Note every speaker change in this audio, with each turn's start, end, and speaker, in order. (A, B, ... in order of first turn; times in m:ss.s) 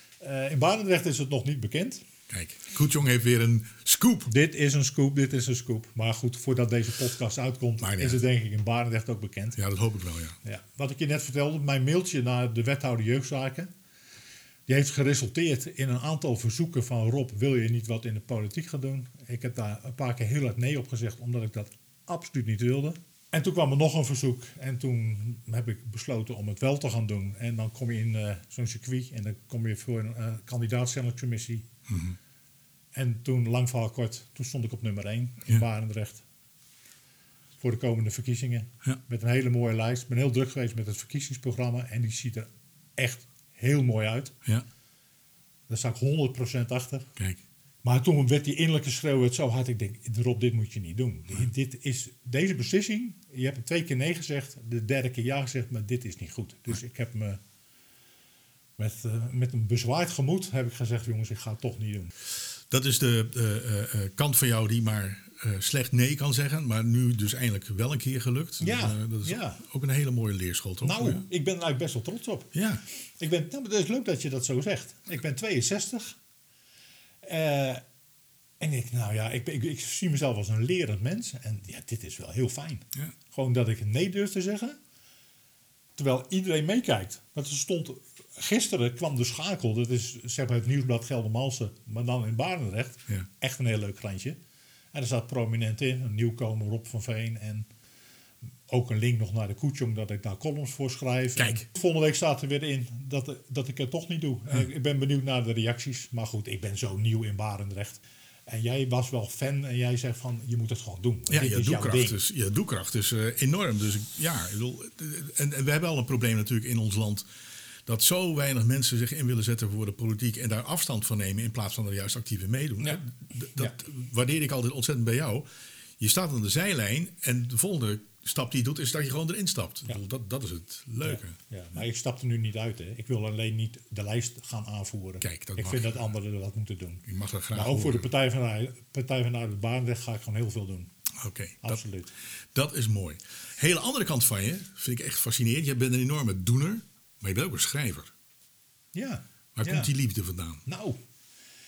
0:00.2-0:02.0 A
0:02.3-0:04.3 B
0:04.3-0:09.6 A
0:07.8-0:08.2 B
0:09.6-0:10.4 B
0:10.4-0:13.7 A
0:14.7-0:31.6 A
0:31.9-0:32.2 B
0:32.9-0:36.2 A
0:37.6-0:44.3 A
0:45.7-0:47.1 A
0:47.8-0:57.4 A
0:58.8-1:02.1 A
1:02.7-1:11.2 B
1:08.6-1:09.6 A
1:10.8-1:16.2 A
1:12.5-1:12.8 B
1:17.2-1:17.8 A
1:18.6-1:24.8 A
1:26.0-1:34.4 A
1:34.9-1:37.7 A
1:38.7-1:52.2 A
1:41.3-1:41.6 B
1:51.3-1:57.3 B
1:57.8-2:05.5 B
2:06.0-2:11.4 B
2:11.0-2:20.9 A
2:15.2-2:15.9 B
2:17.1-2:18.1 B
2:21.2-2:21.8 B
2:21.6-2:22.1 A
2:22.5-2:28.1 B
2:28.9-2:29.9 A
2:29.6-2:30.6 B
2:30.6-2:31.0 A